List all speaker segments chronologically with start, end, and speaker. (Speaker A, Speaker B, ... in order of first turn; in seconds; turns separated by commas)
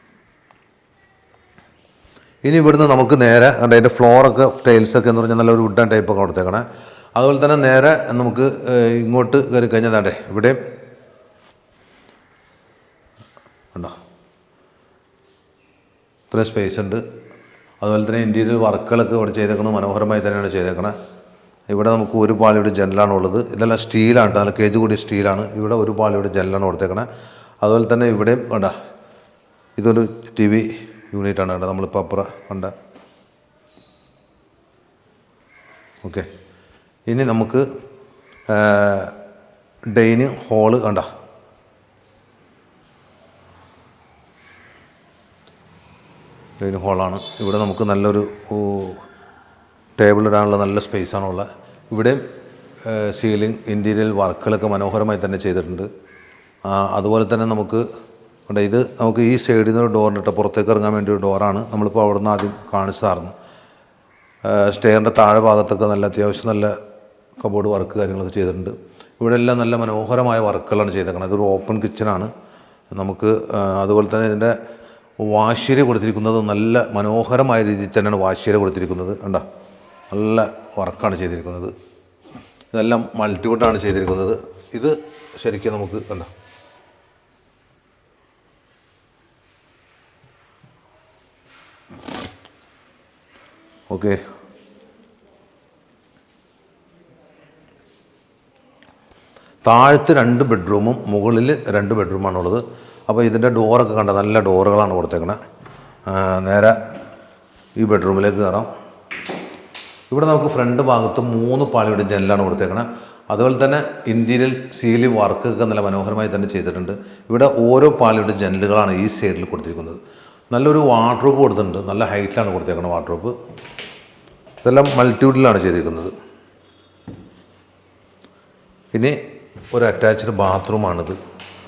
Speaker A: 2.4-10.6, Speaker A: 16.3-17.0, Speaker A: 17.8-20.9, Speaker A: 21.7-27.1, Speaker A: 27.6-28.8, Speaker A: 29.8-32.7, Speaker A: 36.0-36.3, Speaker A: 37.1-37.6, Speaker A: 38.5-39.1, Speaker A: 39.9-41.1, Speaker A: 46.6-49.0, Speaker A: 50.0-52.2, Speaker A: 52.8-55.9, Speaker A: 56.6-57.8, Speaker A: 58.5-63.3, Speaker A: 64.4-66.8, Speaker A: 67.4-72.3, Speaker A: 72.9-74.6, Speaker A: 75.2-79.4, Speaker A: 80.1-81.7, Speaker A: 82.7-86.3, Speaker A: 93.9-94.2, Speaker A: 99.6-105.4, Speaker A: 106.1-106.8, Speaker A: 107.8-108.7, Speaker A: 110.1-120.0, Speaker A: 120.5-123.3, Speaker A: 124.6-126.1, Speaker A: 128.9-129.2, Speaker A: 129.7-131.2